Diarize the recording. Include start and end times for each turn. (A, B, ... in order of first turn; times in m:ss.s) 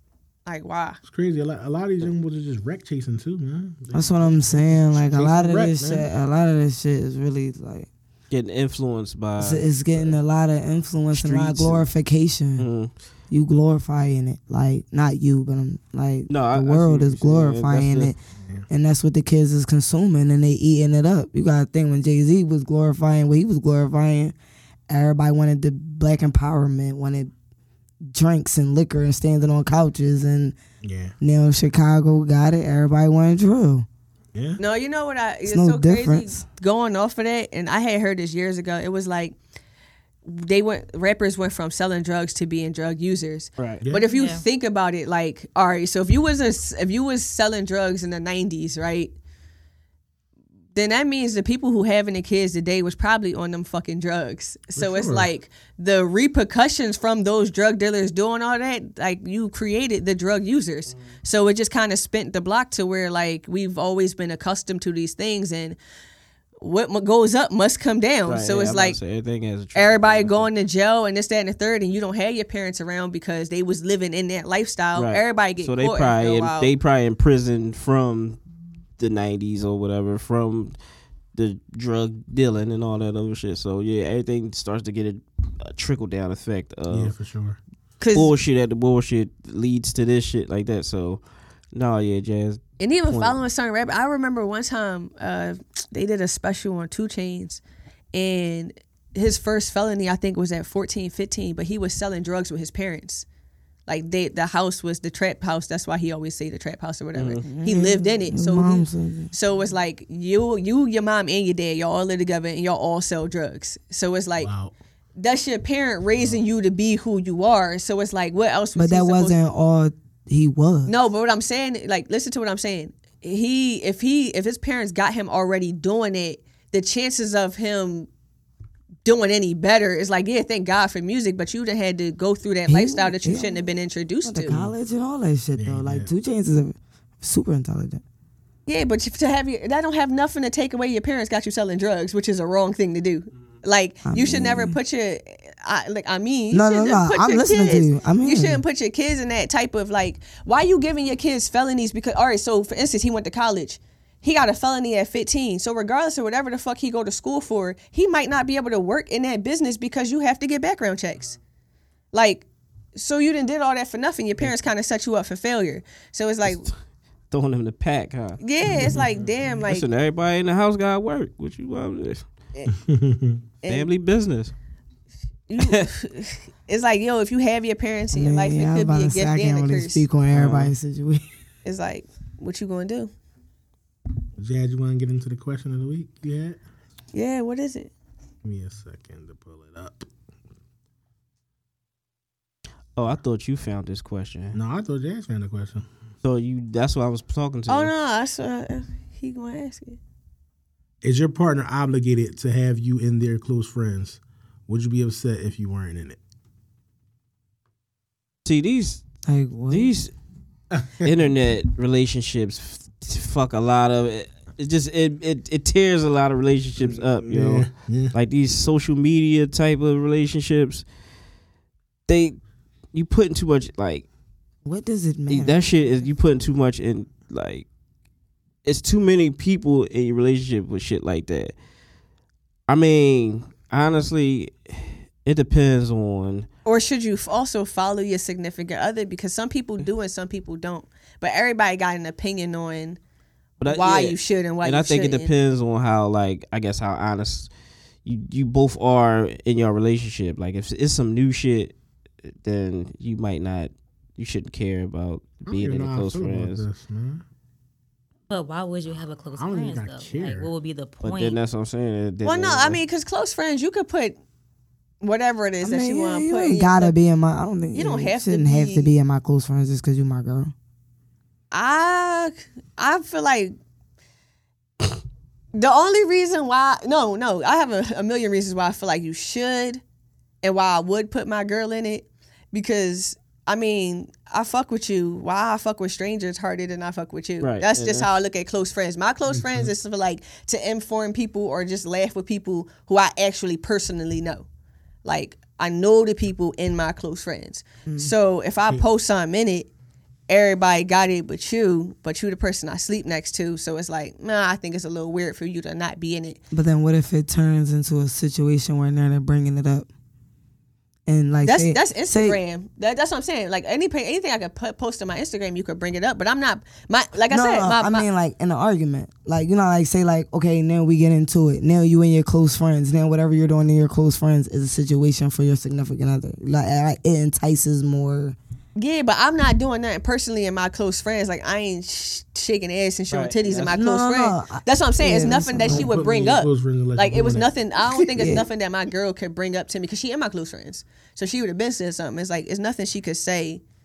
0:00.5-0:01.0 A
0:01.0-0:06.1 B
0:03.9-0:07.9 C
0:08.3-0:09.8 D
0:09.4-0:12.7 C
0:11.1-0:11.8 D
0:12.6-0:12.9 D
0:13.3-0:18.2 C
0:16.3-0:18.1 D
0:18.7-0:24.4 C
0:24.9-0:27.3 C
0:28.1-0:30.6 C
0:30.8-0:31.1 B
0:31.2-0:33.9 C
0:34.4-0:34.6 B
0:34.6-0:39.4 A
0:35.5-0:36.4 C
0:40.2-0:49.2 A
0:43.6-0:43.8 D
0:44.1-0:44.4 E
0:50.8-1:05.8 A
0:54.8-0:55.3 B
1:06.6-1:09.0 A
1:08.3-1:10.5 D
1:09.8-1:16.7 A
1:15.0-1:18.4 D
1:19.0-1:20.8 D
1:21.4-1:27.1 D
1:26.9-1:27.6 B
1:28.0-1:28.3 A
1:28.1-1:31.2 D
1:31.7-1:33.4 D
1:32.8-1:37.6 A
1:38.1-1:43.2 A
1:43.9-1:54.5 A
1:47.2-1:47.5 D
1:47.5-1:49.3 C
1:54.4-1:54.7 B
1:55.2-1:59.4 A
1:58.8-2:01.0 C
2:00.9-2:08.1 A
2:09.0-2:14.6 A
2:12.7-2:13.7 C
2:14.2-2:18.0 C
2:15.6-2:16.1 B
2:18.7-2:41.4 A
2:24.0-2:24.8 C
2:26.5-2:28.6 C
2:42.1-2:46.7 A
2:46.4-2:46.7 D
2:47.3-2:48.4 D
2:48.4-2:49.9 A
2:48.6-2:49.1 B
2:49.6-2:52.2 D
2:52.8-2:53.4 B
2:53.6-2:53.9 A
2:53.7-2:54.5 D
2:55.5-3:00.1 A
2:55.6-2:55.9 D
2:58.1-3:01.2 C
3:00.3-3:00.7 D
3:01.6-3:03.1 A
3:04.4-3:06.6 B
3:07.1-3:07.9 A
3:08.4-3:10.1 B
3:13.0-3:14.6 D
3:14.5-3:15.9 B
3:16.2-3:17.9 D
3:17.7-3:20.0 A
3:21.0-3:26.2 B
3:28.4-3:29.0 D
3:29.3-3:29.9 C
3:29.7-3:30.1 D
3:30.7-3:31.1 B
3:31.0-3:40.8 D
3:36.8-3:38.1 B
3:42.1-3:42.4 D
3:42.9-3:44.1 D
3:44.6-3:46.1 C
3:45.3-3:47.7 D
3:48.6-3:51.6 D
3:52.7-3:56.5 D
3:56.7-4:03.0 A
4:03.6-4:07.5 D
4:03.7-4:05.3 A
4:08.0-4:11.7 D
4:12.4-4:16.6 D
4:15.5-4:17.2 B
4:18.3-4:21.4 E
4:19.4-4:20.5 B
4:21.0-4:22.8 D
4:22.2-4:24.2 A
4:25.0-4:27.0 A
4:25.6-4:30.5 C
4:27.7-4:28.9 A
4:31.5-4:33.6 A
4:35.5-4:39.8 A
4:40.4-4:54.5 A
4:47.4-4:48.1 D
4:49.3-4:49.7 B
4:55.0-4:59.7 A
4:57.9-4:58.1 C
5:00.3-5:06.4 A
5:06.5-5:09.9 C
5:11.1-5:12.4 C
5:11.4-5:18.1 A
5:17.3-5:28.4 C
5:28.8-5:43.6 A
5:33.1-5:33.7 D
5:33.7-5:35.9 C
5:35.6-5:37.5 B
5:38.1-5:38.5 C